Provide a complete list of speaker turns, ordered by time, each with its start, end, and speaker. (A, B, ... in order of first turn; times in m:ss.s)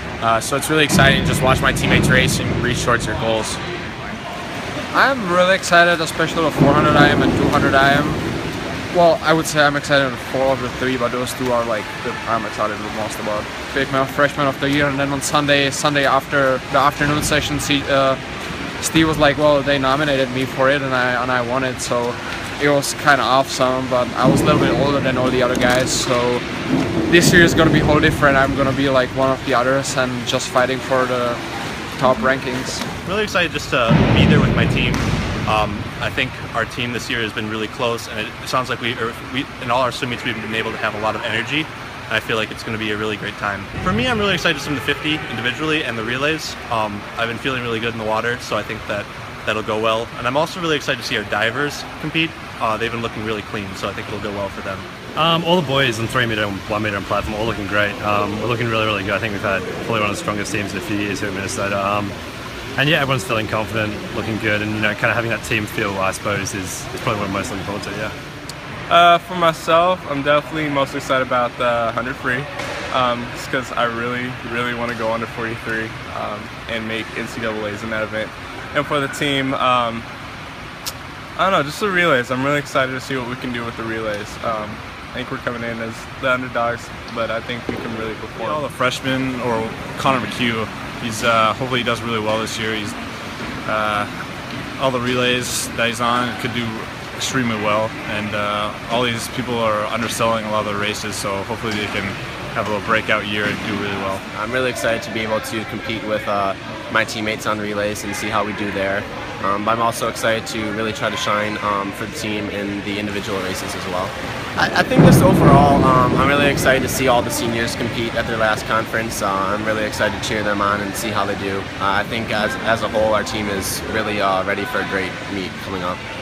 0:00.2-0:03.6 A
0:04.9-0:08.2 B
0:08.9-0:18.2 B
0:18.8-0:26.4 B
0:27.1-0:31.4 B
0:32.0-0:32.8 B
0:33.0-0:54.9 C
0:55.1-1:02.2 D
1:02.8-1:08.1 D
1:08.9-1:20.0 E
1:21.4-1:28.7 E
1:28.4-1:33.0 F
1:33.6-1:34.1 F
1:34.8-1:44.2 F
1:44.3-2:06.0 G